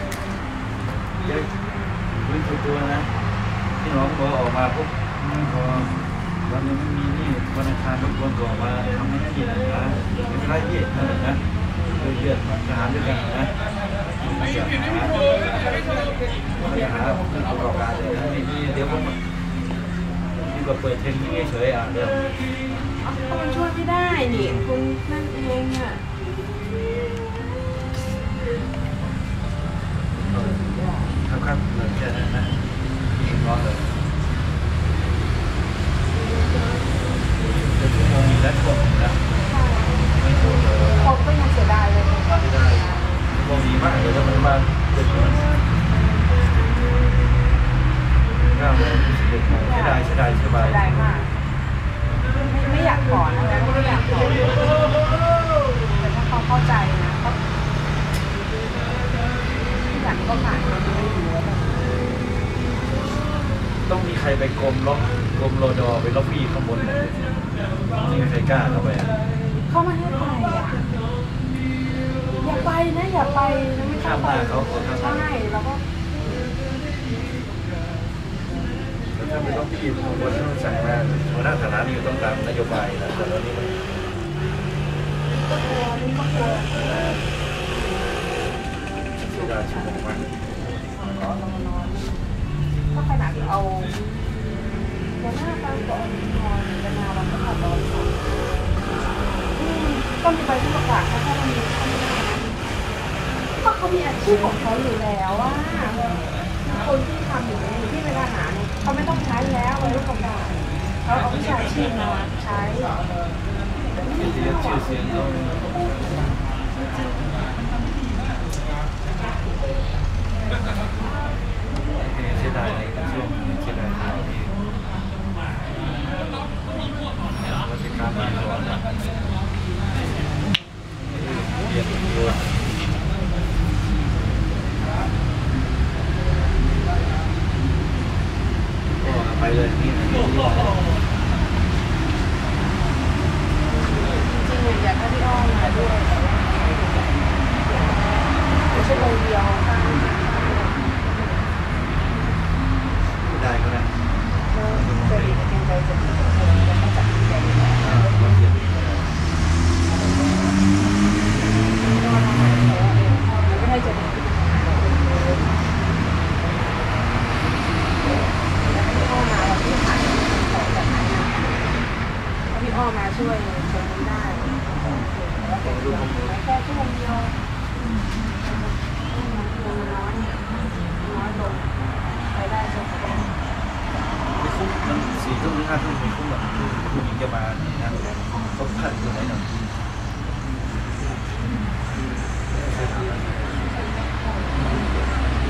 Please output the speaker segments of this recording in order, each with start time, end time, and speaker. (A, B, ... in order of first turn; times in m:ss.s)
0:01.2-0:01.5 A
0:02.2-0:03.1 A
0:03.8-0:13.5 A
0:14.2-0:15.7 A
0:16.6-0:19.2 A
0:20.4-0:22.2 A
0:23.0-0:26.1 B
0:24.3-0:24.6 A
0:30.2-0:31.2 B
0:30.3-0:30.6 A
0:31.2-0:32.6 A
0:33.1-0:33.9 A
0:37.6-0:39.2 A
0:39.4-0:40.1 B
0:40.1-0:41.1 A
0:41.0-0:43.2 B
0:42.2-0:45.5 A
0:48.5-0:51.1 A
0:49.5-0:51.3 B
0:52.4-0:54.9 B
0:56.0-0:57.4 B
0:59.7-1:02.0 B
1:03.9-1:07.4 A
1:07.9-1:09.1 A
1:09.6-1:10.9 B
1:12.4-1:15.8 B
1:14.0-1:15.3 A
1:19.1-1:23.9 A
1:19.2-1:20.4 B
1:25.4-1:27.2 B
1:29.2-1:32.3 B
1:29.2-1:30.2 A
1:32.9-1:34.1 B
1:35.2-1:38.2 B
1:39.5-1:42.5 B
1:43.5-1:53.0 B
1:53.9-1:57.2 B
1:54.1-1:55.5 A
2:01.9-2:04.6 A
2:07.4-2:08.8 A
2:11.1-2:12.5 A
2:19.0-2:20.8 A
2:23.7-2:31.4 B
2:28.7-2:29.2 A
2:33.2-2:33.9 A
2:34.5-2:38.5 B
2:34.7-2:35.5 A
2:37.8-2:39.0 A
2:41.8-2:45.5 B
2:48.6-2:51.6 B
2:52.5-2:57.3 B
2:54.7-2:56.4 A
2:58.4-3:01.7 B
3:02.3-3:03.4 B
3:04.4-3:09.6 A
3:12.5-3:13.6 A
3:13.8-3:15.0 B